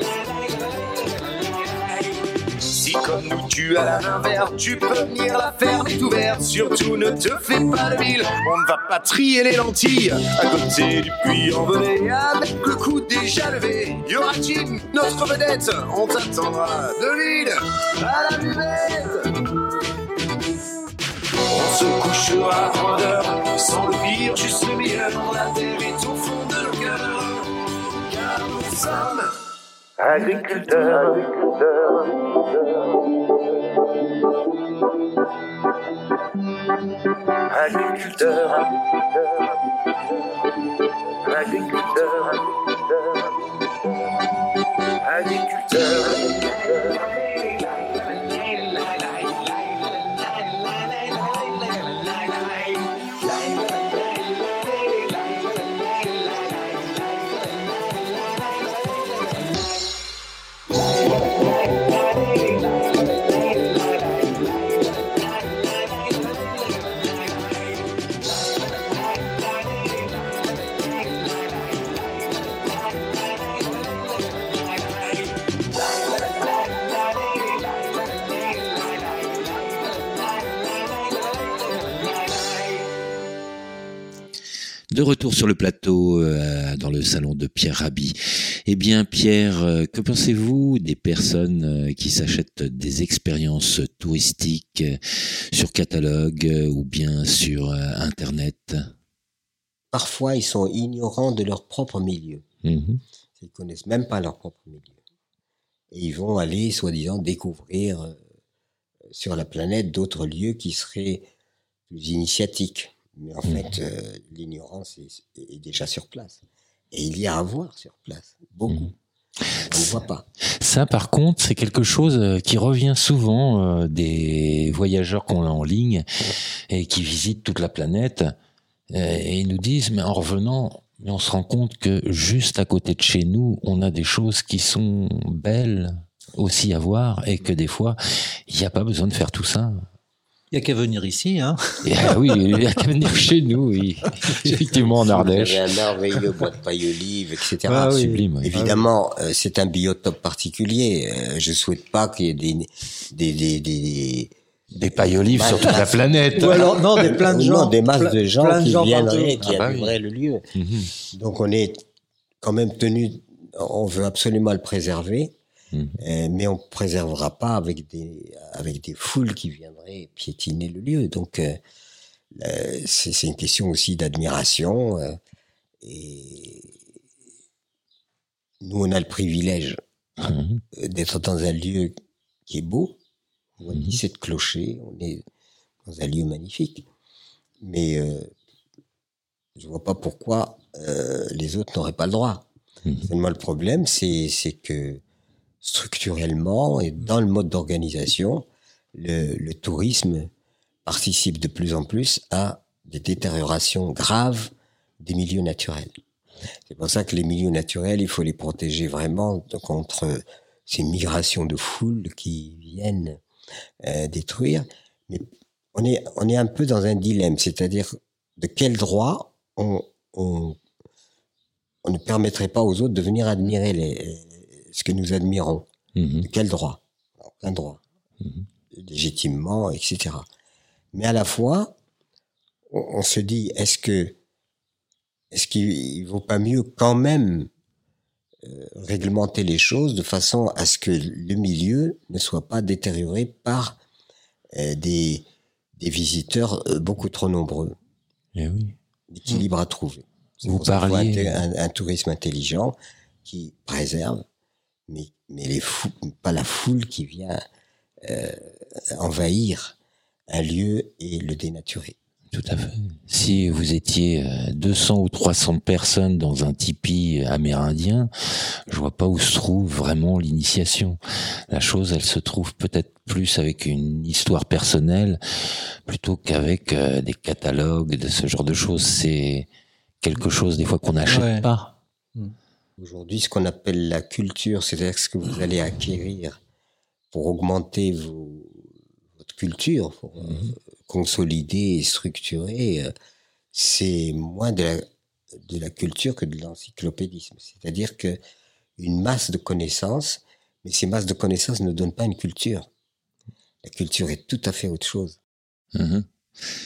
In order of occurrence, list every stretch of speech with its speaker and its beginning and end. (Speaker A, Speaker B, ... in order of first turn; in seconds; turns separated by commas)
Speaker A: 2.5-19.4, Speaker A: 21.5-29.3, Speaker A: 30.0-32.9, Speaker A: 37.4-39.5, Speaker A: 41.1-43.2, Speaker A: 45.0-49.4, Speaker A: 51.0-52.7, Speaker B: 84.9-98.9, Speaker C: 99.9-102.4, Speaker B: 102.6-103.0, Speaker C: 103.4-105.0, Speaker C: 105.9-108.2, Speaker C: 109.1-111.3, Speaker C: 111.9-118.9, Speaker B: 113.5-113.7, Speaker B: 119.5-120.0, Speaker C: 119.6-120.2, Speaker B: 120.6-128.3, Speaker B: 128.9-139.9, Speaker D: 140.5-142.3, Speaker B: 141.8-145.7, Speaker D: 144.2-144.7, Speaker C: 144.6-154.3, Speaker D: 147.7-148.7, Speaker B: 148.0-148.5, Speaker B: 154.7-156.8, Speaker C: 154.9-160.4, Speaker D: 156.3-159.4, Speaker B: 159.4-159.9, Speaker B: 160.5-160.9, Speaker C: 161.0-161.8, Speaker C: 162.4-165.3, Speaker B: 165.7-166.0, Speaker C: 166.0-171.6, Speaker C: 172.3-175.2, Speaker C: 175.8-176.8, Speaker C: 178.6-179.8, Speaker B: 180.2-180.6, Speaker C: 180.7-181.9, Speaker C: 182.5-183.0, Speaker C: 183.6-185.2, Speaker B: 183.7-184.0, Speaker C: 185.8-186.9, Speaker C: 187.6-188.3, Speaker C: 189.6-192.5, Speaker B: 192.8-193.1, Speaker C: 193.0-195.0, Speaker C: 195.6-200.3, Speaker C: 200.8-205.9, Speaker C: 206.7-213.2, Speaker C: 213.8-220.6, Speaker C: 221.8-225.7, Speaker B: 225.9-226.3, Speaker C: 226.2-227.8, Speaker C: 228.7-230.3, Speaker C: 230.9-231.8, Speaker C: 232.7-234.2, Speaker C: 235.3-237.5, Speaker C: 238.4-243.8, Speaker C: 244.5-245.2, Speaker C: 245.8-247.8, Speaker B: 248.3-248.8, Speaker C: 249.1-254.2, Speaker B: 250.4-251.4, Speaker C: 254.9-257.4, Speaker C: 258.0-259.8, Speaker C: 260.3-262.0, Speaker B: 262.3-275.2, Speaker B: 275.8-279.5, Speaker B: 280.0-281.5, Speaker D: 281.1-282.3, Speaker C: 282.8-286.4, Speaker C: 287.1-292.9, Speaker B: 290.2-290.5, Speaker C: 293.5-298.2, Speaker C: 298.8-302.7, Speaker C: 303.6-305.2, Speaker B: 305.7-306.1